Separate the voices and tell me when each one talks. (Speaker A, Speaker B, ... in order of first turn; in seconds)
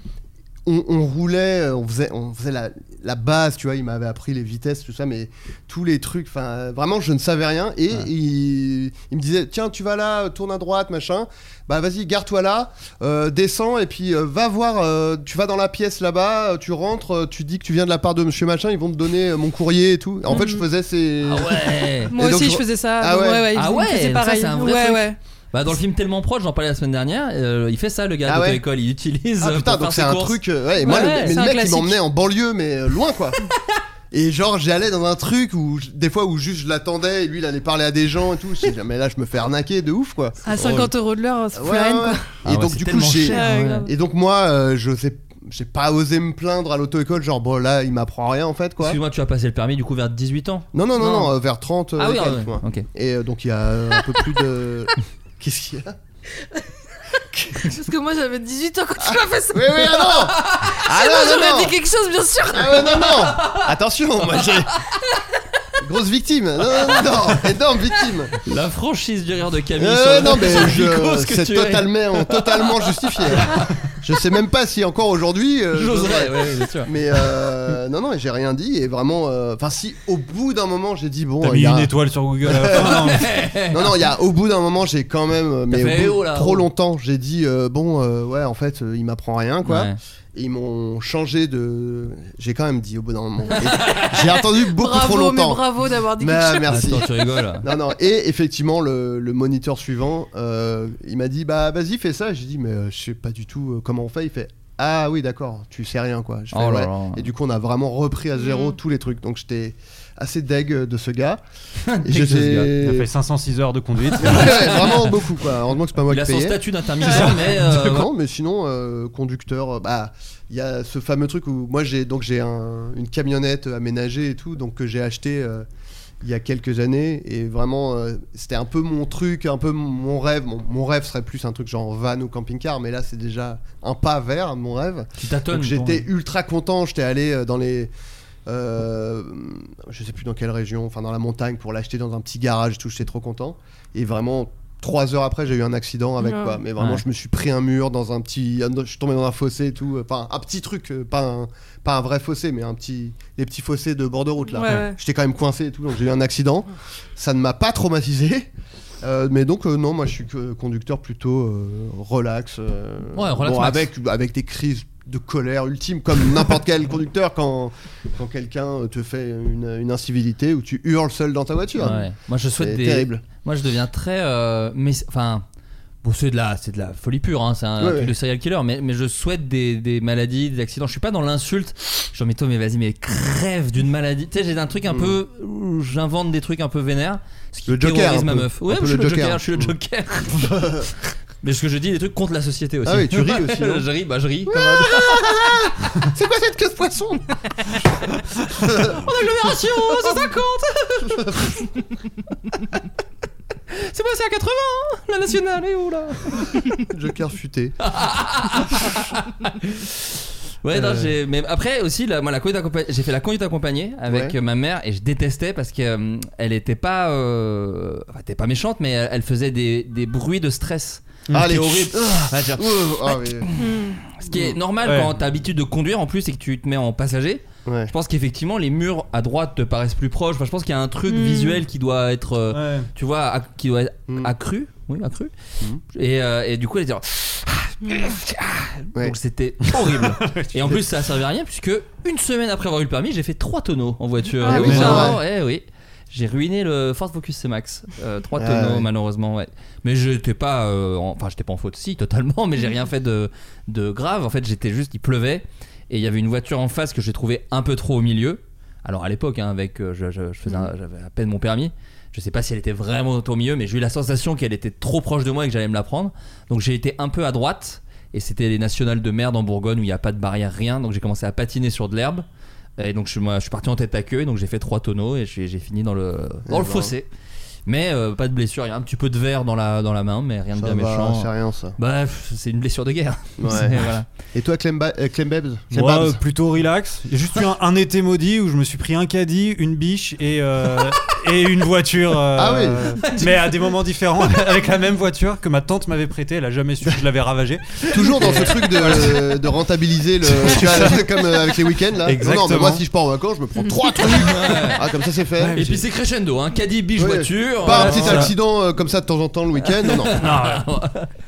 Speaker A: 0.6-23.5, 28.2-28.6, 29.4-33.4, 34.1-40.4, 41.5-49.0, 50.7-56.0, 59.0-61.8, 62.5-64.7, 65.8-68.3, 69.8-81.9, 82.4-83.2, 83.7-95.7, 96.2-97.1, 97.6-111.4, 112.0-113.1, 114.2-125.7, 126.2-137.9, 138.4-158.5, 159.0-172.0, 172.6-173.2, 177.8-178.1, 184.9-185.2, 187.7-189.7, 190.3-190.9, 192.8-193.8, 194.4-197.3, 198.6-199.0, 201.1-201.5, 206.7-207.8, 210.7-211.1, 214.1-214.3, 221.3-223.5, 227.6-227.9, 234.1-234.3, 244.5-245.2, 248.3-248.9, 276.5-276.9, 280.5-281.8, 283.4-286.2, 292.3-292.9, 297.9-305.6, 307.0-310.3
Speaker B: 20.3-20.6, 22.1-25.2, 30.8-32.0, 40.4-42.3, 43.3-43.9, 57.4-63.0, 94.6-97.1, 108.4-108.7, 146.2-146.6, 154.5-155.0, 223.6-223.9, 231.1-231.6, 244.4-245.1
Speaker C: 21.2-22.1, 23.5-31.4, 40.5-40.9, 42.4-43.9, 48.8-51.3, 52.0-52.9, 60.4-60.8, 62.9-63.7, 68.3-73.6, 75.7-76.9, 82.8-83.9, 85.7-86.7, 89.6-90.0, 93.8-94.2, 96.7-97.7, 106.5-107.3, 111.8-112.8, 114.2-115.1, 116.1-118.1, 135.2-136.0, 146.8-147.0, 163.1-163.9, 171.8-175.4, 176.0-190.5, 191.4-195.4, 198.8-201.6, 203.7-206.6, 207.8-235.3, 235.9-272.2, 272.8-277.1, 277.6-284.1, 293.0-293.7, 298.0-298.6, 304.1-304.8, 305.5-308.3, 309.8-311.1
Speaker D: 81.4-83.3, 112.8-114.5, 224.8-225.2, 232.5-232.9, 239.8-240.8, 244.6-245.1, 285.7-299.3, 300.2-301.1, 302.0-302.8, 305.4-305.8, 307.6-308.3, 310.1-310.6